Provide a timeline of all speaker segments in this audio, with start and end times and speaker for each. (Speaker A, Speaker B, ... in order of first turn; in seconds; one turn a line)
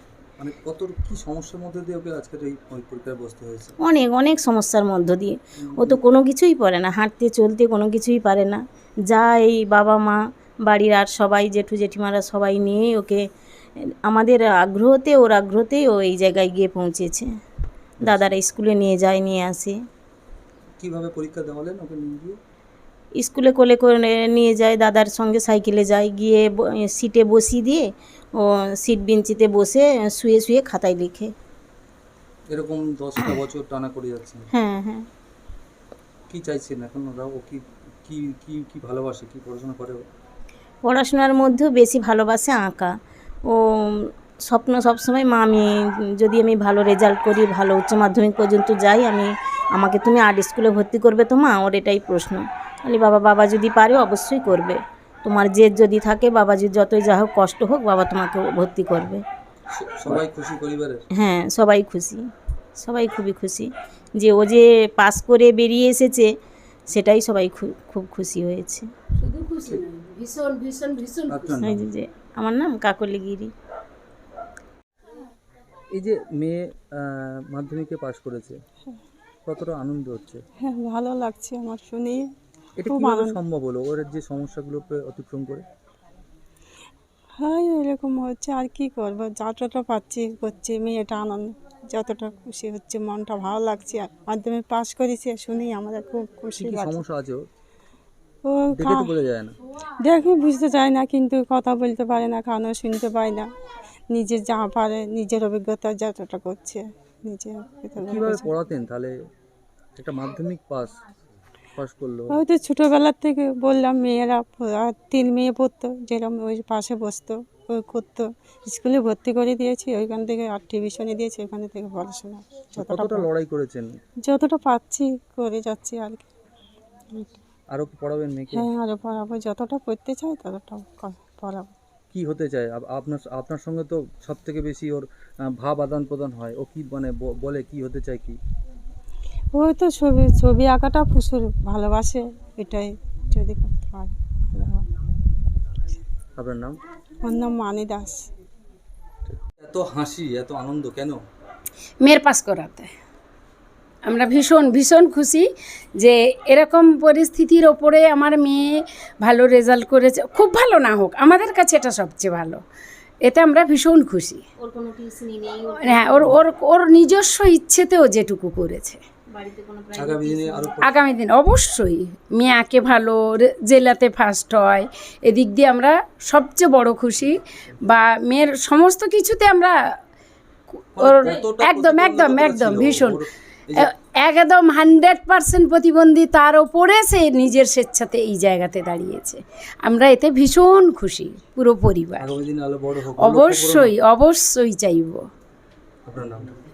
Speaker A: 0.4-3.8
Speaker B: 3.8-13.2
Speaker A: 5.6-6.0
Speaker B: 13.9-17.3
Speaker A: 18.0-18.4
Speaker B: 18.0-19.8
Speaker A: 20.8-22.4
Speaker B: 23.2-27.8
Speaker B: 28.4-31.3
Speaker A: 32.5-34.5
Speaker B: 34.5-35.0
Speaker A: 36.3-40.0
Speaker B: 40.9-42.9
Speaker B: 43.5-45.7
Speaker B: 46.2-59.2
Speaker A: 59.7-61.0
Speaker B: 61.2-62.2
Speaker B: 62.8-66.3
Speaker B: 66.9-68.9
Speaker C: 69.2-71.6
Speaker A: 71.3-71.8
Speaker B: 71.6-73.5
Speaker A: 75.9-78.5
Speaker A: 79.5-80.4
Speaker D: 80.6-82.3
Speaker A: 82.8-85.6
Speaker D: 82.8-83.4
Speaker D: 87.4-97.0
Speaker A: 96.6-97.4
Speaker D: 98.5-99.1
Speaker A: 98.7-99.6
Speaker D: 100.0-103.5
Speaker D: 104.1-108.5
Speaker A: 108.0-109.1
Speaker A: 110.0-110.9
Speaker A: 111.8-112.4
Speaker D: 112.3-123.3
Speaker A: 122.8-123.9
Speaker D: 124.3-126.2
Speaker D: 127.1-127.4
Speaker A: 127.7-128.7
Speaker D: 128.5-131.7
Speaker A: 132.1-135.1
Speaker A: 135.6-138.4
Speaker D: 139.5-144.8
Speaker A: 146.4-146.8
Speaker D: 147.2-148.3
Speaker A: 149.3-151.2
Speaker C: 152.0-152.9
Speaker C: 154.1-155.4
Speaker C: 156.0-162.6
Speaker C: 163.3-164.4
Speaker C: 165.8-169.0
Speaker A: 169.9-171.0
Speaker C: 170.8-179.8
Speaker A: 181.0-183.9
Speaker C: 181.0-192.4
Speaker A: 192.2-193.9
Speaker C: 193.2-195.2
Speaker A: 196.1-196.5